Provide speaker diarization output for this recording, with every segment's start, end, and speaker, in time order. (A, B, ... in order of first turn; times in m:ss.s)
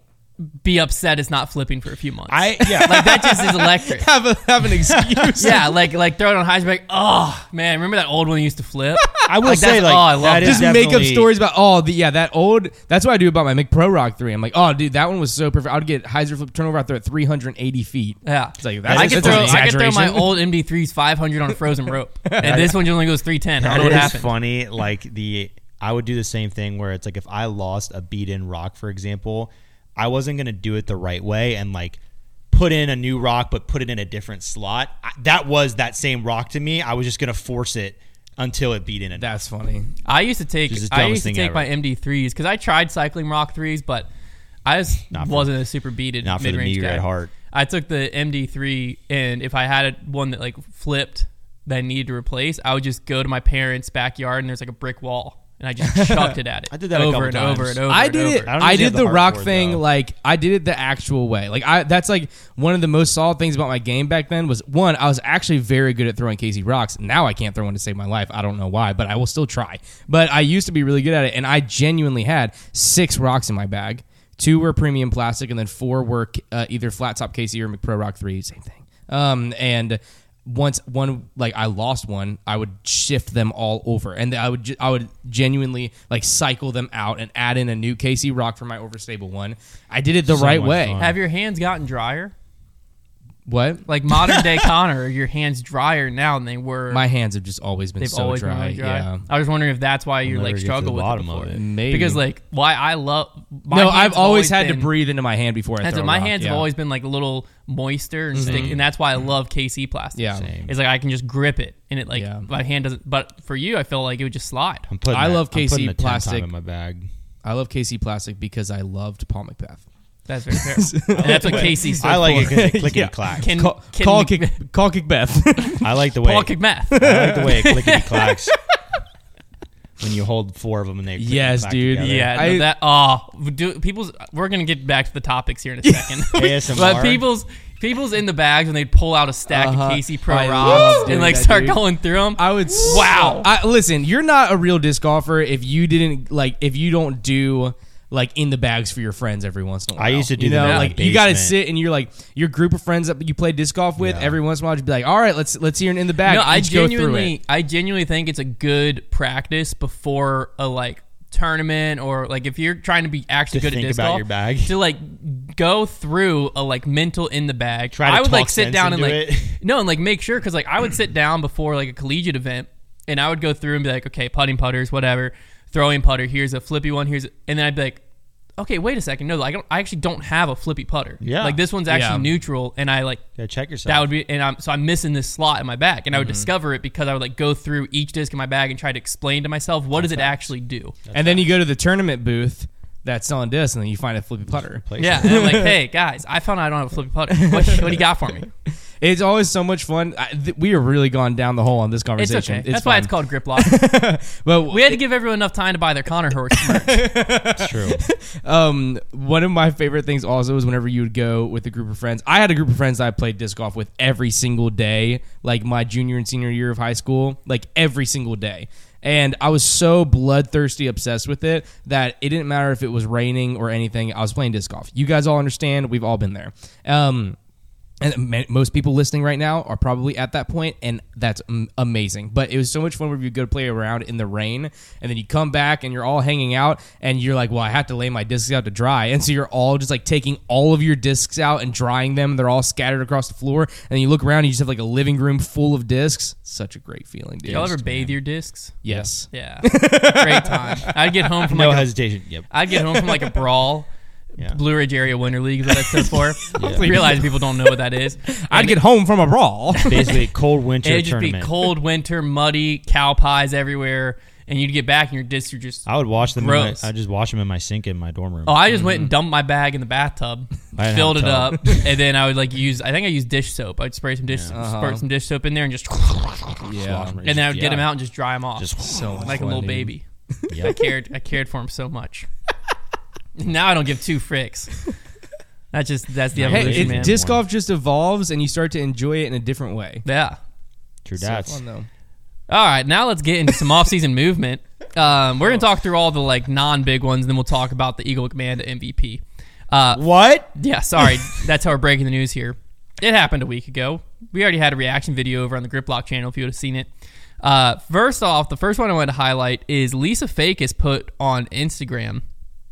0:00.4-0:04.1 A
0:02.3-0:03.4 B
0:02.6-0:05.7 C
0:04.7-0:05.4 B
0:05.4-0:10.7 A
0:09.2-0:11.3 B
0:10.2-0:20.4 C
0:18.2-0:24.3 A
0:18.8-0:19.6 B
0:22.2-0:22.7 C
0:22.4-0:22.9 B
0:23.6-0:32.0 B
0:23.7-0:24.1 C
0:32.5-0:39.4 B
0:39.2-0:39.9 C
0:40.0-0:44.1 A
0:40.7-0:41.7 B
0:44.6-0:58.5 A
0:45.1-0:45.5 B
0:46.2-0:47.3 B
0:55.8-0:56.4 C
0:56.7-0:57.8 B
0:57.9-1:31.0 C
0:58.4-0:59.8 B
1:30.2-1:31.2 B
1:31.0-1:32.3 A
1:33.4-1:34.7 C
1:33.9-1:37.0 A
1:36.9-1:39.2 C
1:38.0-1:44.9 A
1:40.2-1:41.6 B
1:41.5-1:42.2 C
1:43.7-1:46.7 C
1:45.8-1:54.8 A
1:48.3-1:48.8 C
1:48.4-1:48.8 B
1:50.2-1:50.5 C
1:50.3-1:50.7 B
1:52.1-1:52.4 C
1:54.9-1:57.1 B
1:55.1-1:56.5 C
1:57.4-1:59.8 C
2:00.3-2:02.6 A
2:00.5-2:06.0 C
2:01.1-2:03.6 B
2:03.4-2:04.6 A
2:05.8-2:08.6 B
2:06.2-2:08.3 A
2:06.9-2:07.7 C
2:10.0-2:12.3 B
2:11.2-2:12.7 C
2:12.0-2:23.5 A
2:15.8-2:16.7 C
2:16.3-2:17.2 B
2:19.5-2:21.8 C
2:22.3-2:37.4 C
2:30.0-2:31.6 B
2:30.6-2:31.0 A
2:34.0-2:34.3 B
2:36.2-2:58.0 A
2:43.5-2:44.8 B
2:47.9-2:49.6 B
2:58.6-3:03.2 A
3:01.2-3:01.6 B
3:01.9-3:02.3 C
3:03.4-3:04.1 B
3:03.8-3:10.9 A
3:06.2-3:06.5 C
3:09.9-3:10.5 B
3:11.0-3:11.5 B
3:11.1-3:15.7 C
3:14.8-3:15.7 B
3:15.0-3:18.5 A
3:17.3-3:18.0 C
3:19.0-3:25.0 C
3:22.2-3:23.8 A
3:24.7-3:27.0 A
3:26.5-3:47.4 C
3:27.6-3:28.0 B
3:48.0-4:07.8 C
4:07.4-4:08.8 A
4:07.5-4:08.1 B
4:08.8-4:11.2 C
4:09.3-4:11.9 A
4:11.4-4:12.8 B
4:12.5-4:18.8 A
4:12.7-4:13.4 C
4:15.7-4:20.2 C
4:16.6-4:16.9 B
4:19.8-4:21.5 B
4:20.8-4:26.9 A
4:25.8-4:28.7 B
4:28.4-4:36.6 A
4:28.7-4:29.1 C
4:30.7-4:31.8 B
4:34.3-4:34.6 B
4:34.5-4:35.0 C
4:36.6-4:37.2 C
4:36.7-4:37.9 B
4:37.2-4:42.3 A
4:38.6-4:39.4 B
4:38.8-4:40.5 C
4:40.5-4:40.8 B
4:43.4-4:44.8 A
4:45.7-4:47.2 A
4:46.3-4:47.4 B
4:46.5-4:50.0 C
4:50.0-4:50.4 A
4:51.0-4:51.6 B
4:51.2-4:51.9 C
4:52.5-5:00.0 A
4:59.9-5:00.5 B
5:00.5-5:06.9 A
5:07.4-5:12.2 A